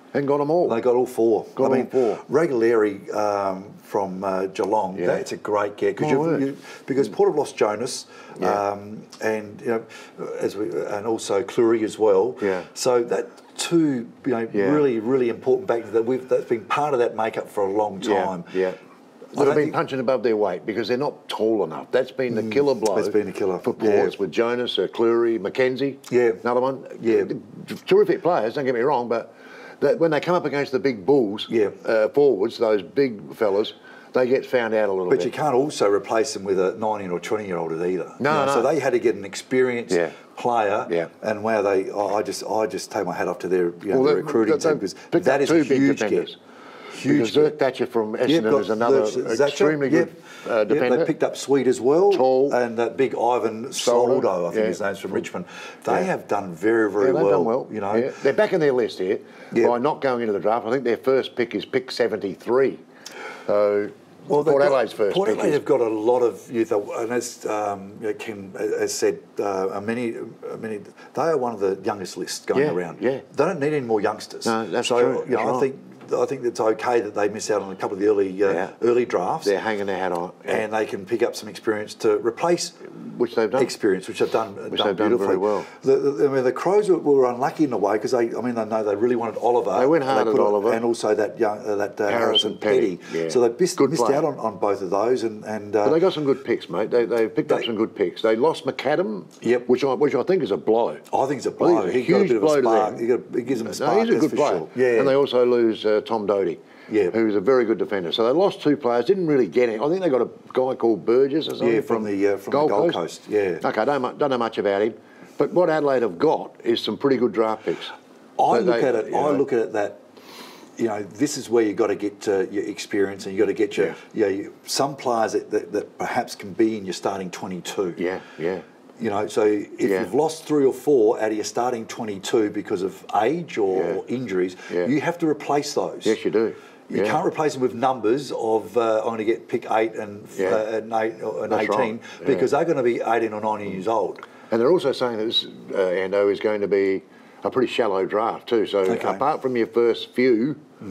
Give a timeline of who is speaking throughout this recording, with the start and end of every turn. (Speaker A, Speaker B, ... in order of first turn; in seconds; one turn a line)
Speaker A: 0.1-0.8
Speaker B: 0.6-18.6
Speaker A: 1.6-2.2
Speaker A: 5.0-5.2
Speaker A: 6.0-6.4
Speaker A: 12.4-12.7
Speaker A: 14.5-14.9
Speaker A: 18.0-18.8
Speaker A: 19.3-35.3
Speaker B: 19.3-19.8
Speaker B: 22.3-24.1
Speaker B: 26.1-26.4
Speaker B: 27.0-27.3
Speaker B: 31.5-31.8
Speaker B: 35.1-46.3
Speaker A: 38.2-38.7
Speaker A: 39.9-40.2
Speaker A: 43.9-46.4
Speaker B: 46.9-47.5
Speaker A: 47.0-51.1
Speaker B: 48.2-58.1
Speaker A: 52.1-52.6
Speaker A: 53.7-54.8
Speaker A: 57.0-62.8
Speaker A: 63.5-65.6
Speaker B: 64.3-79.5
Speaker A: 72.5-73.2
Speaker A: 74.4-75.7
Speaker A: 78.5-78.7
Speaker A: 79.4-80.6
Speaker B: 80.5-82.9
Speaker A: 83.0-83.7
Speaker B: 83.5-96.0
Speaker A: 84.7-85.7
Speaker A: 89.7-90.8
Speaker A: 92.1-94.2
Speaker A: 95.8-101.0
Speaker B: 99.4-99.7
Speaker B: 101.1-105.2
Speaker A: 101.6-113.0
Speaker B: 106.9-107.2
Speaker B: 111.6-113.6
Speaker A: 113.6-117.9
Speaker B: 118.4-120.0
Speaker A: 118.5-119.5
Speaker B: 120.8-128.0
Speaker A: 128.0-128.6
Speaker B: 129.0-136.1
Speaker A: 129.8-130.1
Speaker A: 133.7-134.0
Speaker A: 136.0-137.2
Speaker B: 136.9-144.3
Speaker A: 140.3-140.6
Speaker A: 141.5-142.5
Speaker A: 144.5-150.6
Speaker B: 148.8-149.2